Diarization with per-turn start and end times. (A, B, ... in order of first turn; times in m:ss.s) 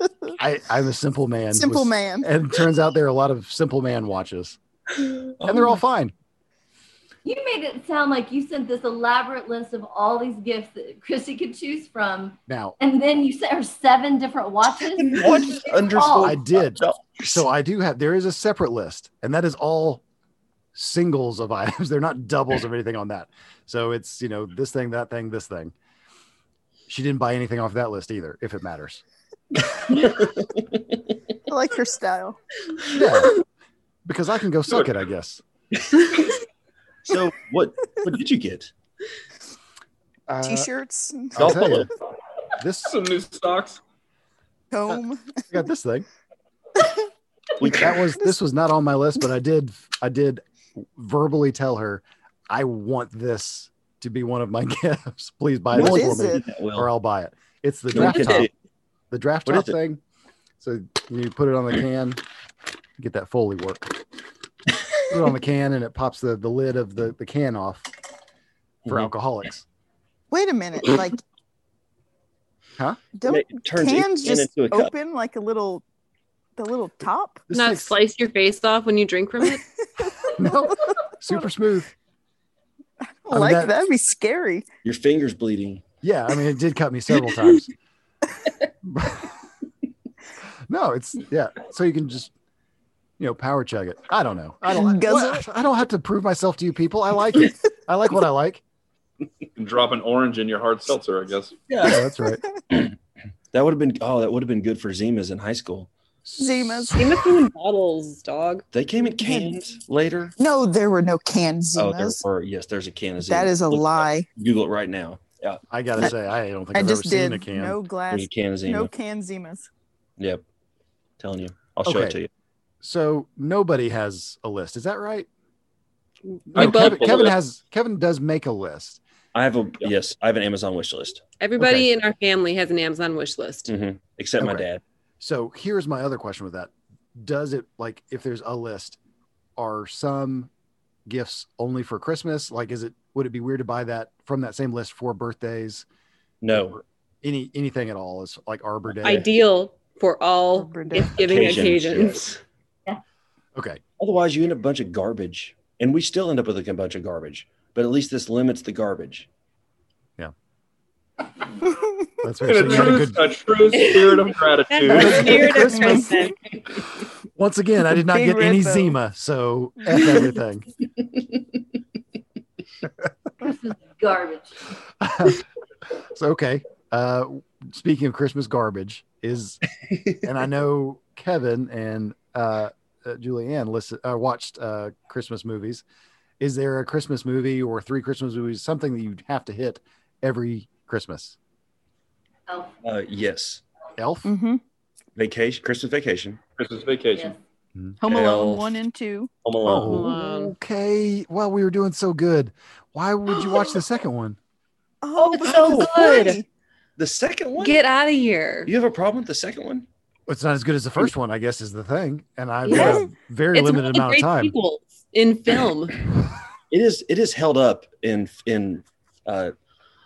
0:00.4-0:04.6 A
0:01.5-0:02.3 B
0:05.4-0:05.8 C
0:05.4-0:06.1 A
0:07.2-0:16.4 D
0:12.5-0:12.8 A
0:14.8-0:17.4 C
0:16.2-0:20.0 A
0:20.7-0:25.7 A
0:26.9-0:29.0 A
0:30.0-0:30.8 C
0:31.5-0:32.4 B
0:32.9-0:33.4 A
0:34.0-0:35.4 A
0:35.8-0:36.4 C
0:37.0-0:38.7 C
0:40.3-0:40.7 A
0:40.4-0:41.7 B
0:41.4-0:41.9 A
0:41.4-0:41.9 C
0:42.6-0:43.0 A
0:42.8-0:43.8 E
0:44.7-0:45.4 B
0:45.5-0:46.1 A
0:47.6-0:48.1 C
0:47.7-0:58.5 A
0:55.7-0:56.4 B
0:55.7-0:56.9 C
0:57.9-0:58.5 C
0:59.1-1:00.0 A
0:59.5-0:59.7 C
1:00.6-1:02.2 A
1:03.0-1:04.0 A
1:05.1-1:07.9 A
1:08.9-1:09.6 A
1:10.3-1:11.2 B
1:13.2-1:15.8 B
1:13.2-1:14.9 C
1:16.6-1:17.4 B
1:17.5-1:17.9 A
1:17.5-1:19.6 F
1:20.3-1:20.9 B
1:20.3-1:21.9 A
1:23.2-1:24.7 B
1:23.3-1:23.7 A
1:24.8-1:25.8 C
1:26.0-1:27.7 A
1:28.9-1:29.3 A
1:30.7-1:32.3 A
1:33.2-1:38.6 A
1:34.7-1:35.4 B
1:39.6-1:41.5 E
1:41.7-1:42.0 C
1:41.8-1:42.4 A
1:43.5-1:45.9 C
1:46.2-1:47.1 A
1:46.4-1:47.1 B
1:46.9-1:48.6 F
1:48.7-1:50.3 C
1:49.2-1:49.5 B
1:50.4-1:52.2 B
1:51.8-1:56.1 C
1:53.2-1:54.3 B
1:55.7-1:57.8 A
1:56.7-1:59.7 B
1:58.1-1:58.9 C
2:00.2-2:00.4 C
2:01.2-2:02.3 C
2:01.8-2:02.2 A
2:02.8-2:05.3 A
2:06.5-2:07.2 F
2:06.5-2:09.0 A
2:06.5-2:07.4 E
2:09.3-2:11.2 C
2:11.4-2:13.7 F
2:11.6-2:11.9 A
2:13.7-2:14.8 C
2:14.4-2:14.6 A
2:15.2-2:19.0 A
2:19.6-2:20.5 A
2:21.1-2:25.8 A
2:26.4-2:26.8 C
2:26.5-2:29.3 A
2:29.0-2:32.2 F
2:30.5-2:31.2 B
2:31.1-2:32.4 C
2:33.5-2:33.8 A
2:34.0-2:39.3 C
2:42.2-2:43.3 A
2:42.4-2:45.5 E
2:43.8-2:46.8 F
2:44.9-2:46.2 A
2:45.3-2:46.1 B
2:47.4-2:50.6 A
2:48.1-2:48.9 B
2:53.4-2:54.6 D
2:55.0-2:55.4 A
2:56.1-2:59.6 A
3:00.2-3:05.8 A
3:06.4-3:11.4 A
3:12.5-3:12.7 D
3:12.8-3:13.6 C
3:14.0-3:14.3 A
3:14.2-3:14.6 B
3:15.2-3:16.4 C
3:16.6-3:17.3 E
3:18.0-3:19.3 B
3:18.1-3:18.7 C
3:19.4-3:20.2 C
3:19.6-3:24.4 A
3:19.8-3:20.6 F
3:25.0-3:26.4 B
3:25.2-3:26.4 F
3:25.4-3:26.4 C
3:27.0-3:27.8 C
3:27.6-3:28.7 F
3:28.6-3:29.9 C
3:30.3-3:34.5 A
3:32.7-3:33.0 F
3:32.7-3:33.0 C
3:33.5-3:36.0 F
3:36.7-3:39.5 C